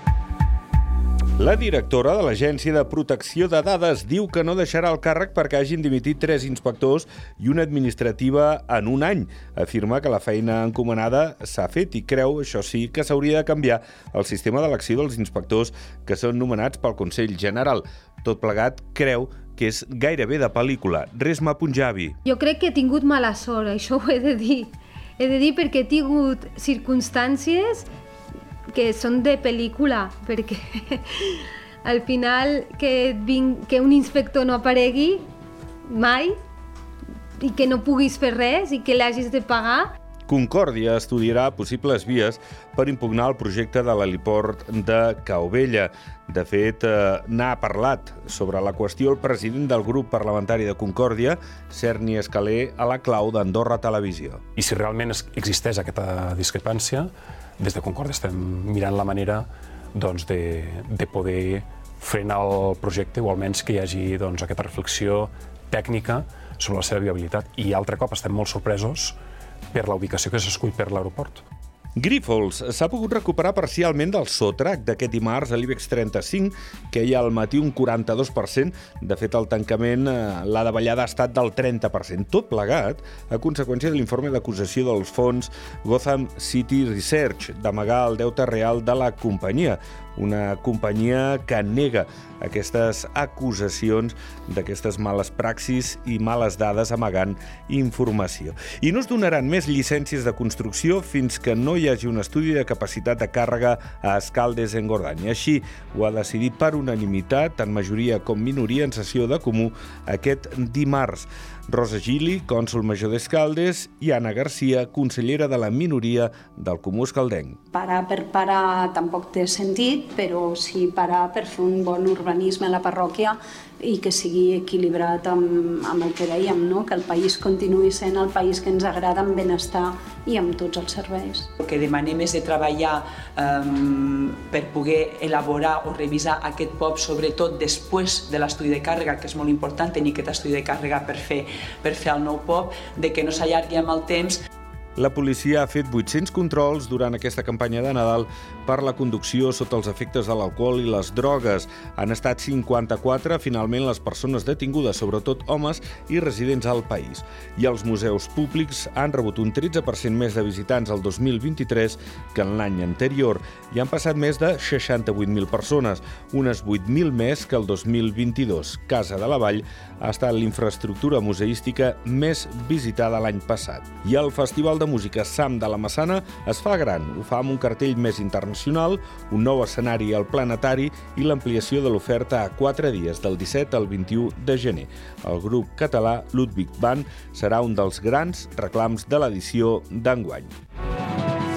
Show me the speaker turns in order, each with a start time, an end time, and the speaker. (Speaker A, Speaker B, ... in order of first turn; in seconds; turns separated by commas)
Speaker A: 1.4-22.1, Speaker B: 22.2-27.9, Speaker B: 28.7-35.2, Speaker B: 35.9-36.4, Speaker B: 37.4-39.9, Speaker A: 40.3-54.4, Speaker C: 54.5-69.2, Speaker C: 69.7-71.4, Speaker A: 72.0-117.6, Speaker D: 117.7-131.5, Speaker E: 131.6-144.4, Speaker A: 144.9-190.5